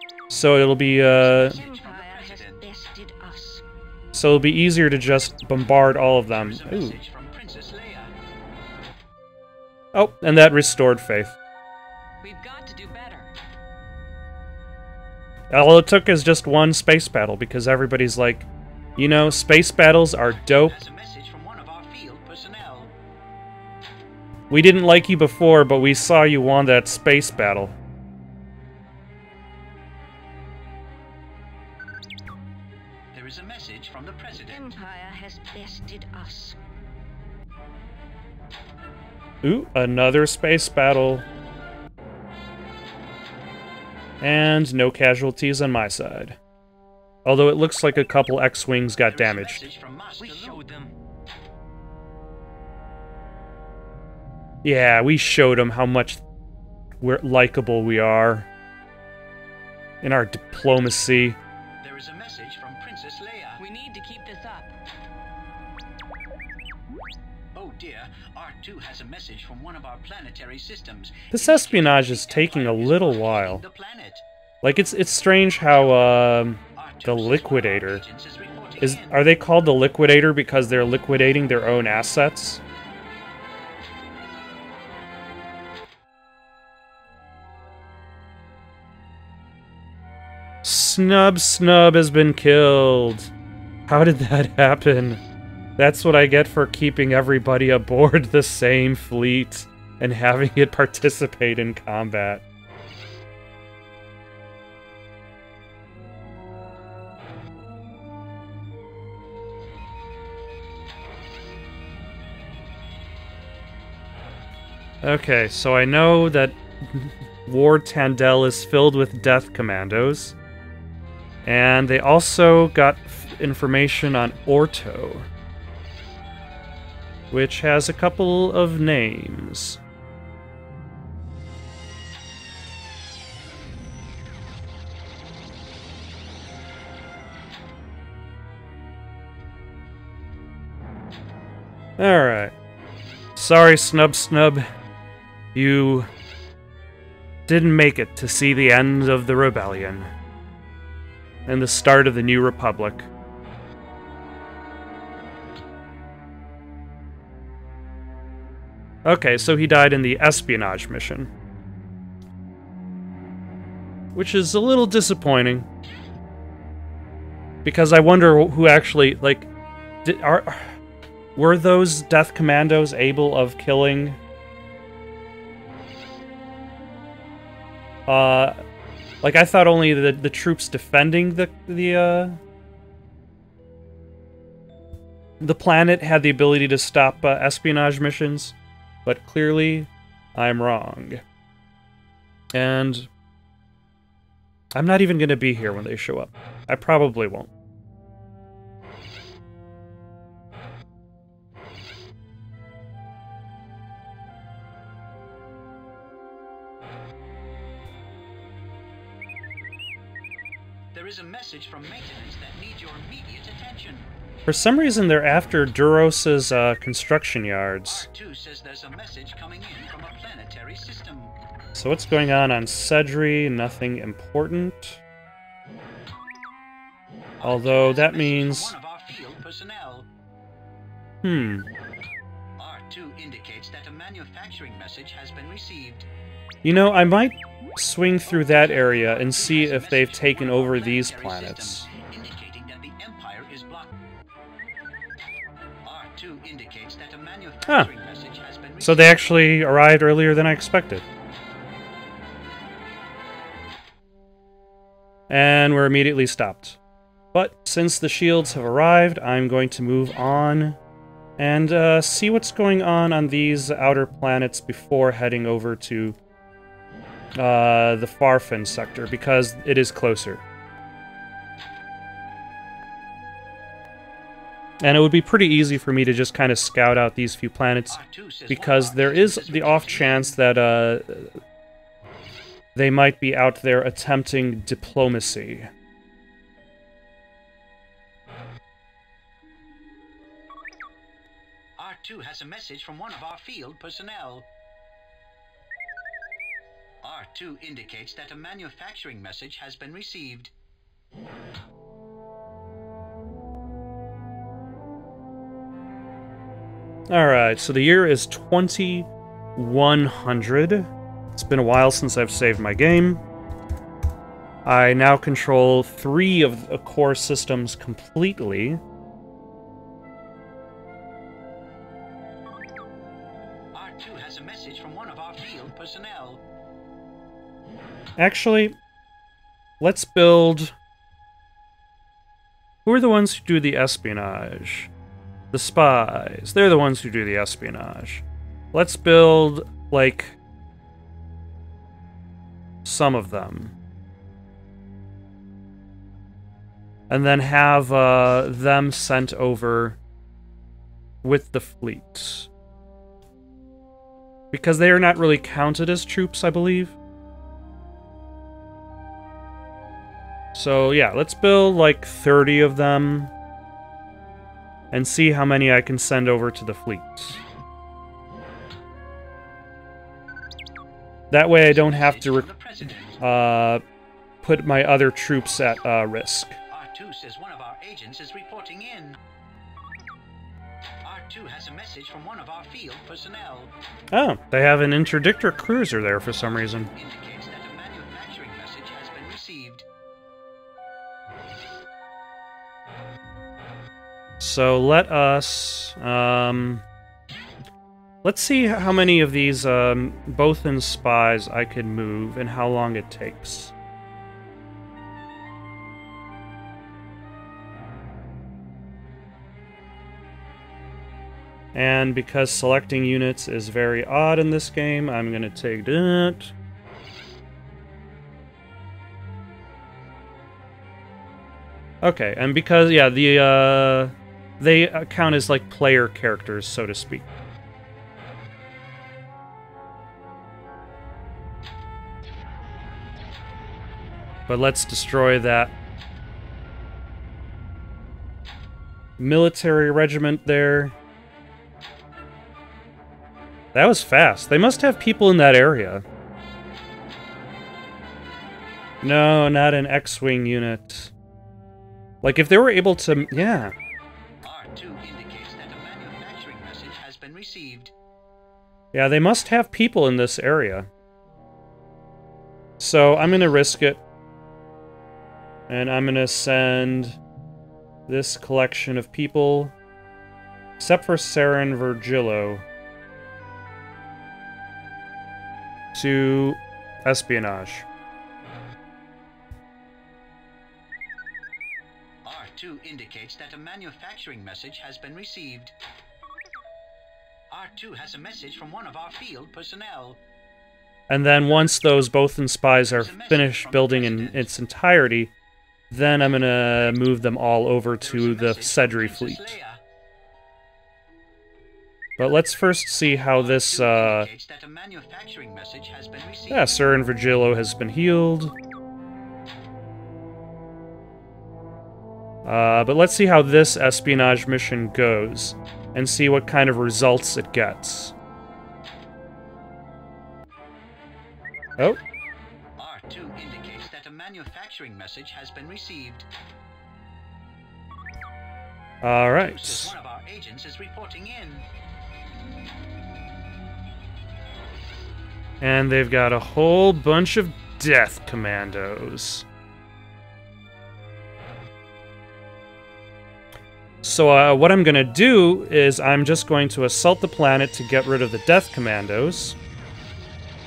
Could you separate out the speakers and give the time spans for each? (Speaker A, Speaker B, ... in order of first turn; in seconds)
Speaker A: 0.3-1.6, 4.1-7.0, 9.9-11.3, 15.5-20.8, 24.5-27.8, 39.4-41.2, 44.2-46.4, 47.2-49.7, 54.6-56.2, 57.0-58.5, 60.0-61.4, 71.3-73.6, 74.6-78.0, 78.8-82.6, 90.6-93.3, 93.9-95.2, 95.8-102.4, 115.0-120.3, 121.4-125.3, 127.3-129.8, 142.0-142.5, 143.3-144.7, 145.5-146.1, 147.5-150.1, 151.5-153.1, 159.0-161.3, 164.1-165.7, 167.6-169.5, 170.0-170.7, 171.3-174.2, 178.1-178.6, 179.2-182.4, 185.4-191.2, 192.5-193.1, 194.7-197.5, 214.5-218.1, 221.7-225.0, 227.4-228.7, 231.2-231.7, 236.6-241.9, 248.8-251.0, 255.3-256.8, 257.3-260.8, 261.4-266.2, 267.4-270.4, 274.8-281.4, 282.7-285.7, 307.1-313.2, 314.6-318.8, 328.2-328.8, 329.8-330.7, 332.8-334.9, 335.5-340.4, 342.8-343.7, 347.1-350.0, 351.2-352.5, 354.5-357.0, 360.5-363.3, 364.9-367.4, 371.3-372.5, 373.2-373.8, 374.4-376.6, 384.1-386.9, 394.4-396.8, 398.2-403.7, 411.7-416.5, 422.0-427.3, 434.5-435.7, 439.2-440.9, 443.7-446.0, 449.0-451.1, 452.2-453.7, 458.9-460.9, 462.8-464.0, 465.7-467.2, 468.1-469.7, 470.8-472.6, 475.9-477.9, 491.1-495.3, 495.9-499.6, 502.2-504.3, 506.5-508.5, 512.4-518.1, 529.0-529.9, 535.6-539.4, 544.0-549.6
Speaker B: 1.1-2.7, 6.3-8.1, 20.2-22.9, 33.1-34.8, 49.0-50.6, 61.8-63.6, 67.5-74.2, 76.7-79.2, 210.9-214.1, 217.8-221.3, 227.4-230.1, 232.6-236.1, 238.2-243.9, 245.8-249.6, 277.9-280.4, 291.8-294.5, 297.0-300.5, 323.7-326.4, 371.5-373.2, 376.7-379.2, 381.0-383.7, 386.4-389.8, 454.4-457.9, 482.2-485.7, 487.5-490.2, 492.8-494.5, 498.0-499.8, 503.3-506.8, 522.8-526.3, 529.2-531.6
Speaker C: 1.4-3.6, 12.2-13.3, 34.3-36.6, 50.2-50.9, 63.6-64.7